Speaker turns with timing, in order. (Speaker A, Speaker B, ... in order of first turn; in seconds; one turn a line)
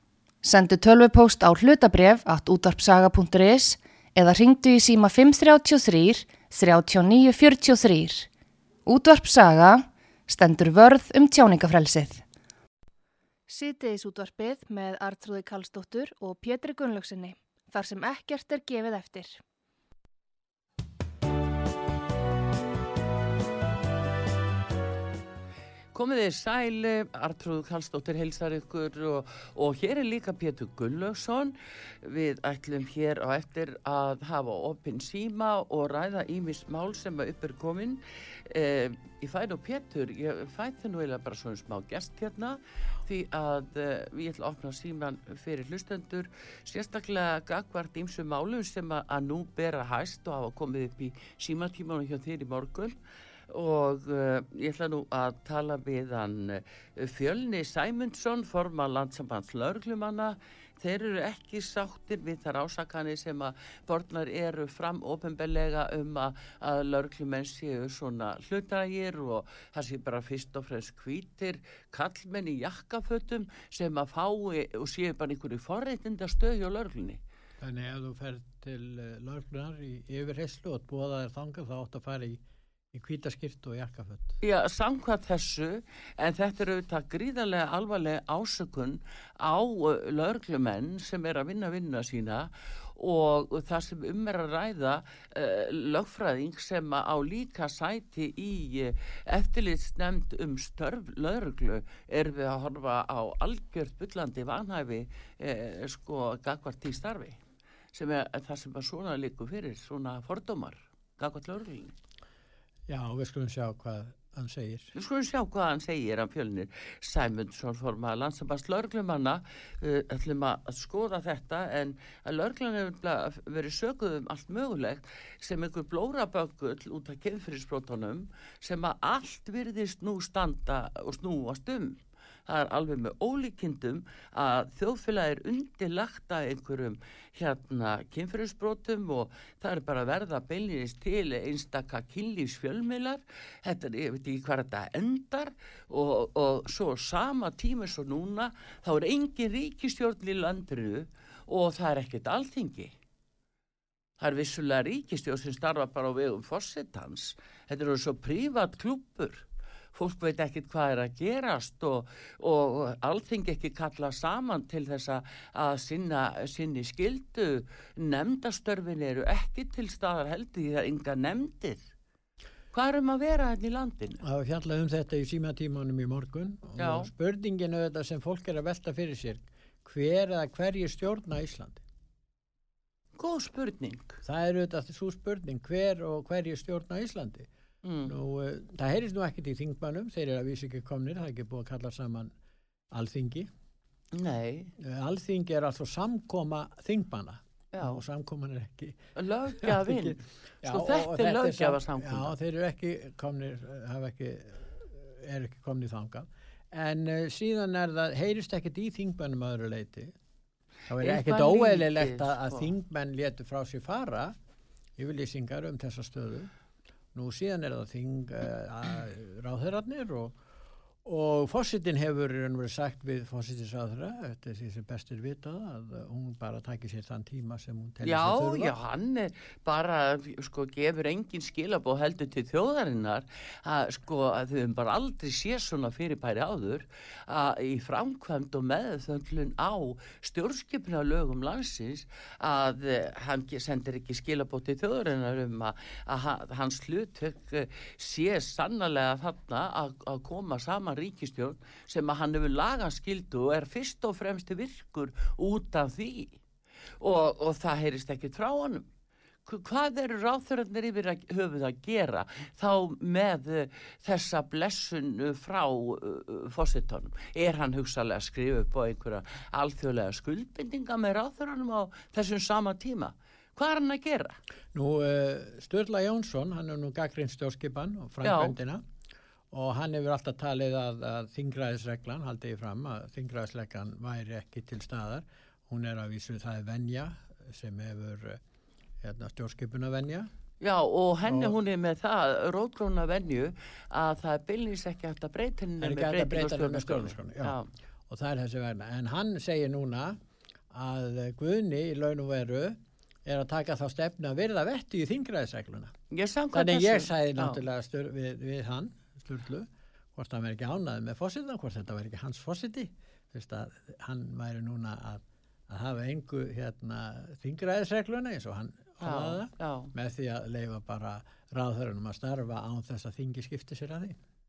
Speaker A: 0.4-8.3
Speaker A: 8.9-12.2
Speaker A: 13.5-19.4
Speaker B: 25.9-53.0
Speaker B: 53.5-77.2
Speaker C: 77.6-84.4
Speaker B: 84.4-107.4
Speaker B: 107.9-112.0
Speaker C: 112.9-114.9
Speaker B: 115.0-152.9
Speaker B: 154.2-171.9
Speaker B: 172.7-174.2
Speaker C: 174.2-181.8
Speaker B: 176.8-177.1
Speaker B: 183.2-184.2
Speaker C: 184.2-187.5
Speaker B: 187.8-188.1
Speaker C: 188.1-192.3
Speaker C: 192.9-193.5
Speaker B: 194.1-194.7
Speaker C: 194.8-199.0
Speaker B: 197.7-198.0
Speaker B: 199.2-202.3
Speaker C: 199.6-210.1
Speaker C: 210.9-214.3
Speaker B: 211.0-212.7
Speaker C: 215.0-216.5
Speaker C: 217.1-220.3
Speaker C: 221.0-228.8
Speaker B: 228.0-256.4
Speaker B: 257.0-258.9
Speaker B: 259.4-274.4
Speaker C: 274.7-278.8
Speaker B: 278.2-278.6
Speaker C: 279.5-288.4
Speaker C: 289.0-290.3
Speaker B: 290.6-297.7
Speaker C: 291.2-291.6
Speaker C: 295.8-297.6
Speaker C: 298.1-305.9
Speaker B: 306.1-307.6
Speaker C: 306.5-324.2
Speaker B: 319.0-319.9